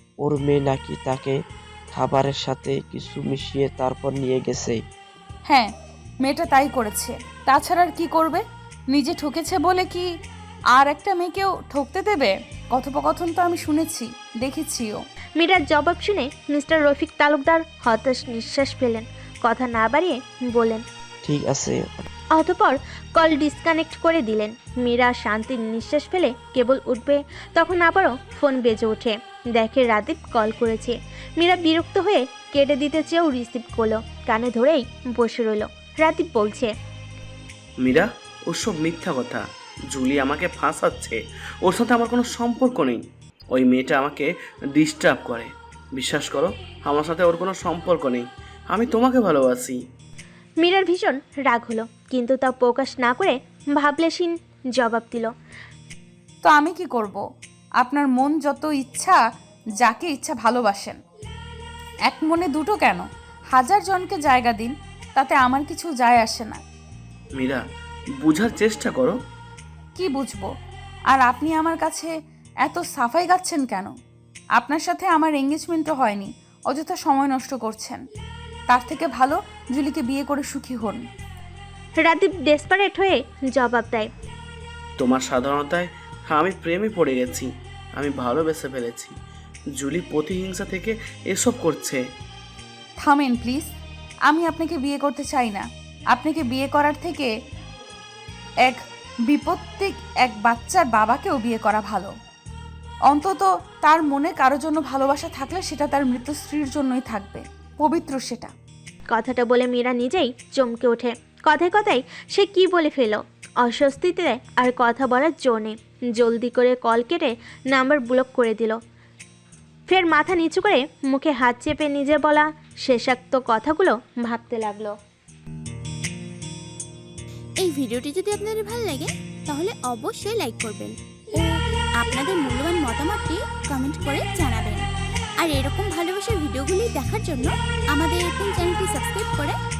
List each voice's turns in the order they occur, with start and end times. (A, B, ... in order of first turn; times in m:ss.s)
0:00.2-0:01.4 A
0:01.9-0:04.8 A
0:06.2-0:10.1 B
0:10.7-0:15.0 B
0:15.4-0:20.8 C
0:21.2-0:22.1 A
0:22.4-0:36.7 C
0:37.8-0:49.8 D
0:50.6-0:55.3 C
0:56.4-0:57.2 B
0:57.8-0:59.2 B
0:59.8-1:01.0 B
1:02.1-1:06.6 B
1:07.3-1:07.6 D
1:08.2-1:09.2 D
1:10.0-1:10.5 B
1:11.1-1:12.1 B
1:12.6-1:13.9 B
1:14.6-1:18.0 B
1:18.7-1:21.0 B
1:22.0-1:24.1 C
1:25.0-1:29.2 D
1:29.8-1:32.0 D
1:33.0-1:33.7 B
1:34.3-1:37.3 B
1:39.3-1:42.1 B
1:43.1-1:48.5 B
1:49.1-1:58.8 C
1:59.9-2:04.9 C
2:07.6-2:11.5 E
2:12.0-2:14.8 E
2:15.4-2:19.6 E